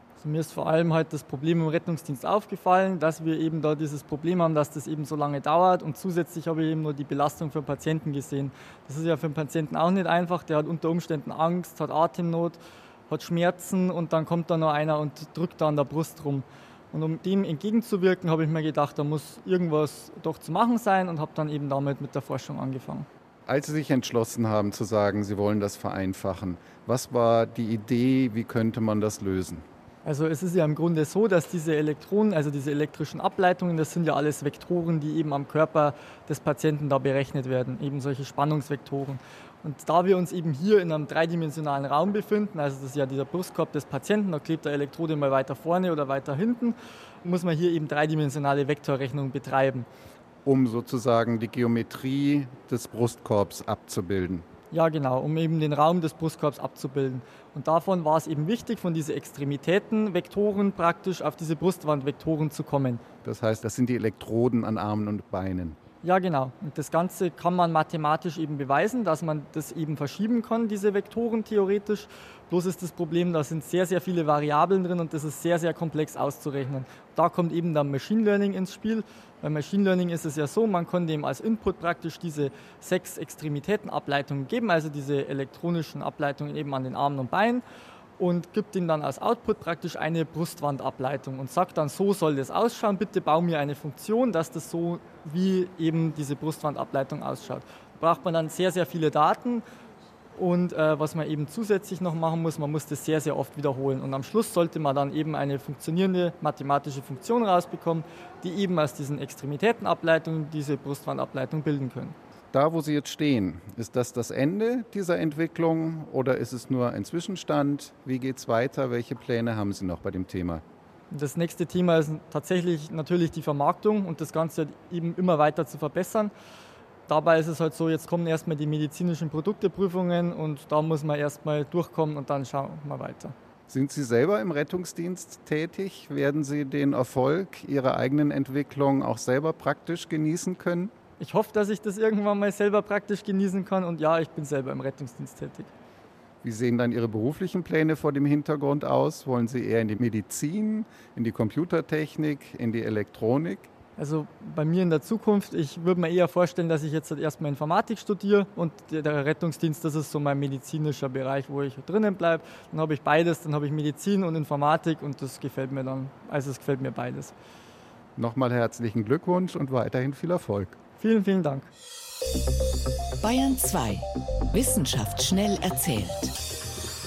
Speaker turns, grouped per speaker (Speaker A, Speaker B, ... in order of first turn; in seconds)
Speaker A: 0.2-23.1, 30.1-49.9, 54.7-63.0, 66.0-87.6, 88.2-99.7, 100.4-112.2, 121.1-126.3, 127.1-133.3, 141.2-145.7, 154.0-167.3, 171.0-171.7
Speaker B: 23.5-29.6, 50.5-54.5, 63.2-65.8, 112.5-120.6, 133.7-140.9, 146.4-153.7, 168.2-170.8
Speaker C: 173.2-176.3